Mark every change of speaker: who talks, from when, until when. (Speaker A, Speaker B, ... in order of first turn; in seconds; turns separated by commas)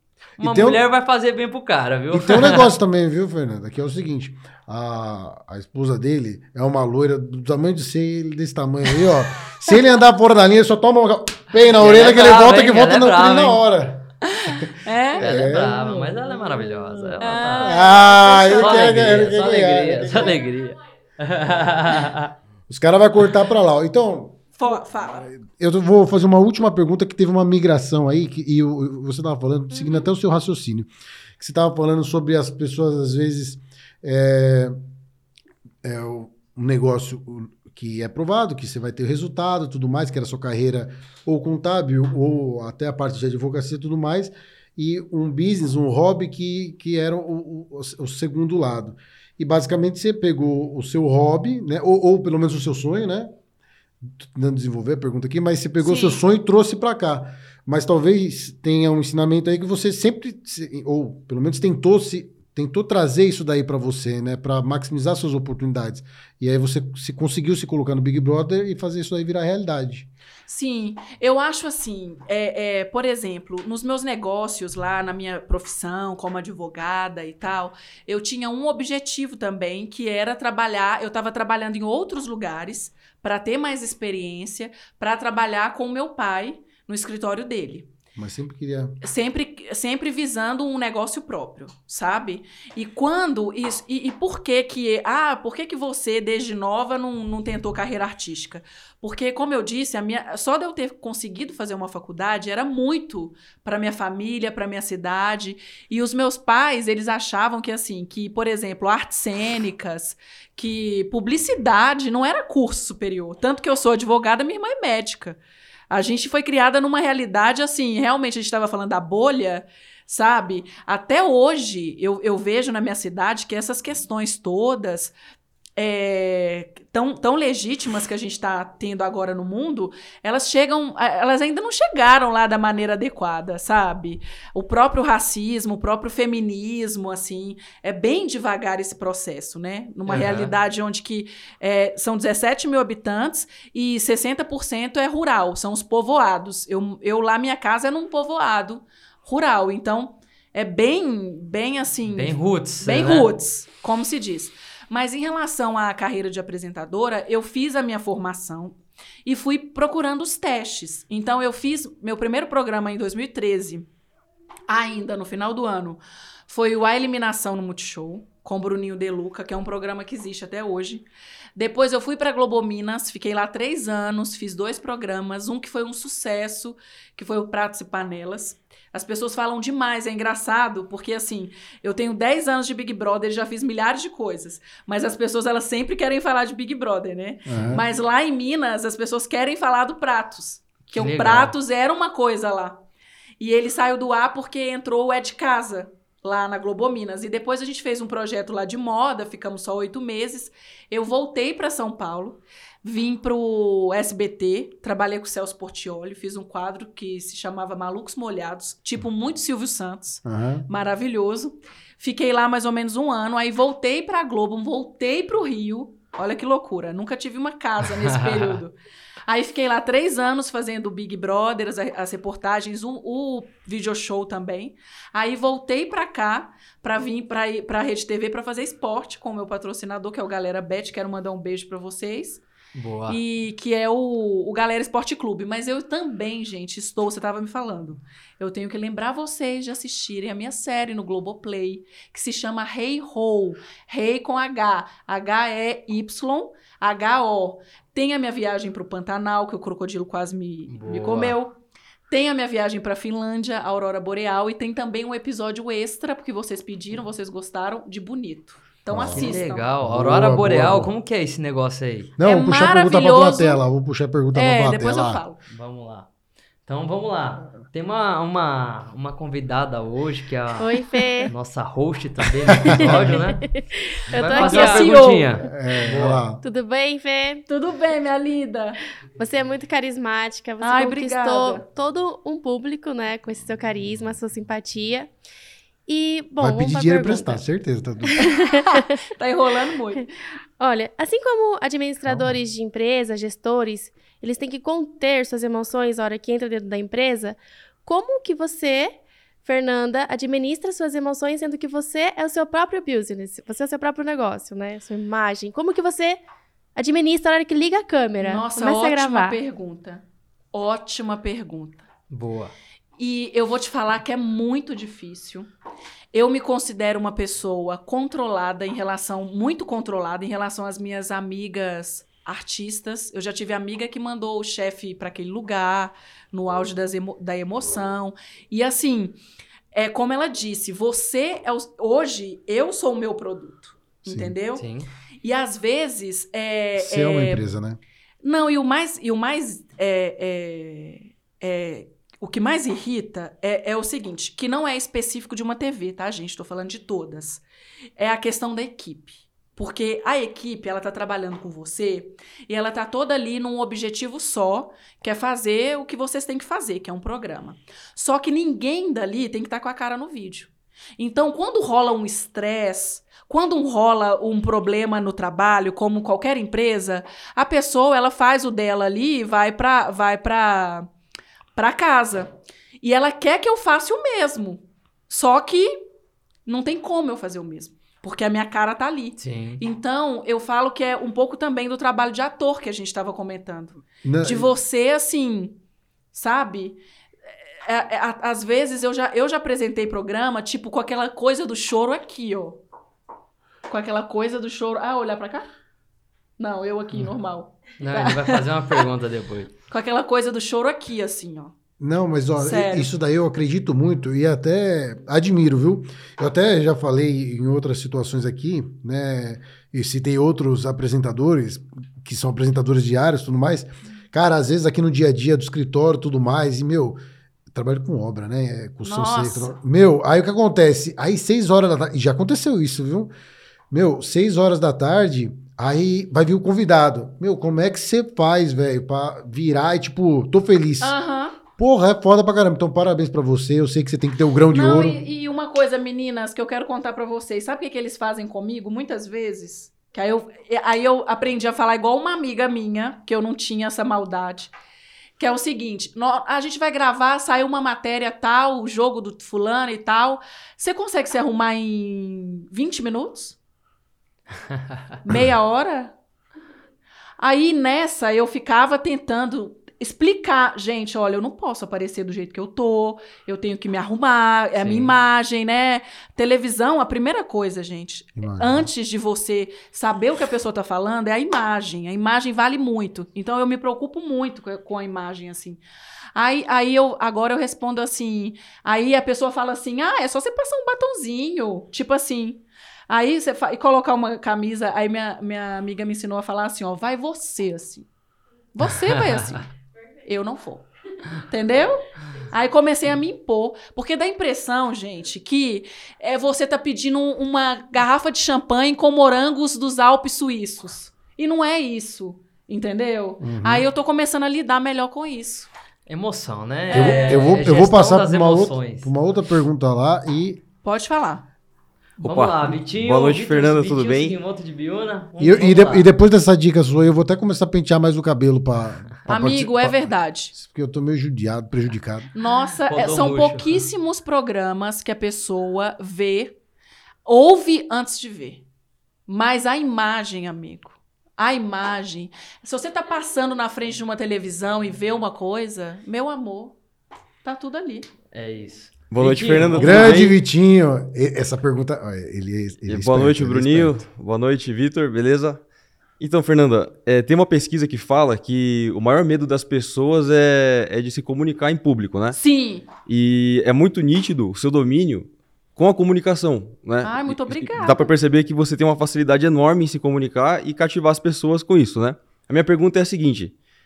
Speaker A: 0.4-2.7, Speaker B: 0.4-0.8, Speaker B: 2.1-20.4, Speaker A: 11.7-13.6, Speaker C: 14.2-15.2, Speaker A: 15.2-22.3, Speaker C: 17.2-18.9, Speaker B: 22.7-24.5, Speaker C: 24.6-25.3, Speaker B: 25.2-34.8, Speaker B: 35.8-53.3, Speaker B: 54.0-70.1, Speaker C: 55.8-56.2, Speaker C: 70.5-87.9, Speaker B: 88.2-89.0, Speaker C: 89.0-115.4, Speaker C: 115.9-125.1, Speaker C: 125.8-163.9, Speaker B: 140.1-140.4, Speaker A: 140.1-140.5, Speaker A: 152.1-153.3, Speaker C: 164.7-192.8, Speaker B: 187.5-187.8, Speaker A: 190.9-191.5, Speaker C: 193.4-218.8, Speaker B: 210.2-210.7, Speaker A: 217.9-218.6, Speaker C: 219.3-232.4, Speaker A: 232.7-233.2, Speaker C: 233.1-251.6, Speaker A: 250.7-251.4, Speaker C: 252.1-259.7, Speaker B: 258.9-260.9, Speaker A: 259.1-262.1, Speaker B: 262.2-265.2, Speaker C: 262.2-263.6, Speaker C: 264.3-265.4, Speaker A: 265.5-266.1, Speaker A: 266.7-273.4, Speaker D: 270.6-271.3, Speaker B: 272.5-273.3, Speaker D: 272.7-275.4, Speaker A: 274.1-276.2, Speaker C: 274.3-275.3, Speaker B: 275.4-276.4, Speaker D: 276.4-277.4, Speaker C: 277.5-278.8, Speaker D: 279.2-285.1, Speaker C: 280.6-281.6, Speaker D: 285.9-287.4, Speaker B: 286.4-288.4, Speaker D: 288.1-288.9, Speaker C: 288.7-290.1, Speaker D: 290.6-306.2, Speaker B: 292.0-292.4, Speaker D: 306.8-309.4, Speaker C: 308.2-311.9, Speaker A: 312.1-312.5, Speaker C: 313.0-315.5, Speaker C: 316.1-329.2, Speaker C: 329.7-334.6, Speaker B: 334.1-334.3, Speaker A: 334.6-334.9, Speaker C: 335.2-337.4, Speaker B: 336.8-337.8, Speaker C: 338.2-347.4, Speaker C: 348.0-370.9, Speaker C: 371.6-375.8, Speaker C: 376.5-385.6, Speaker A: 379.2-379.6, Speaker B: 384.0-384.5, Speaker C: 386.1-386.8, Speaker C: 387.6-392.6, Speaker C: 393.7-395.5, Speaker C: 396.4-398.9, Speaker A: 397.8-399.5, Speaker C: 399.7-401.5, Speaker B: 401.8-417.0, Speaker C: 402.4-402.9, Speaker B: 417.5-423.1, Speaker C: 418.8-419.6, Speaker B: 423.7-431.0, Speaker C: 430.8-431.4, Speaker B: 431.6-435.0, Speaker C: 434.5-444.5, Speaker C: 445.2-453.4, Speaker C: 455.0-455.9, Speaker C: 457.2-475.6, Speaker A: 464.6-464.9, Speaker B: 468.2-468.7, Speaker C: 476.1-487.9, Speaker C: 488.5-489.5, Speaker C: 490.0-505.5, Speaker B: 503.2-503.7, Speaker A: 505.9-508.9, Speaker C: 506.7-507.2, Speaker B: 506.7-510.4, Speaker C: 510.6-511.3, Speaker A: 512.0-515.9, Speaker E: 512.0-514.1, Speaker B: 515.2-522.1, Speaker C: 519.1-520.3, Speaker C: 522.1-526.4, Speaker A: 522.7-523.6, Speaker C: 527.1-528.5, Speaker C: 529.1-536.6, Speaker C: 537.2-537.9, Speaker A: 538.1-540.1, Speaker E: 538.9-540.1, Speaker B: 539.6-543.8, Speaker E: 542.7-545.4, Speaker E: 546.0-552.2, Speaker C: 552.1-552.7, Speaker E: 552.9-563.3, Speaker C: 556.8-557.9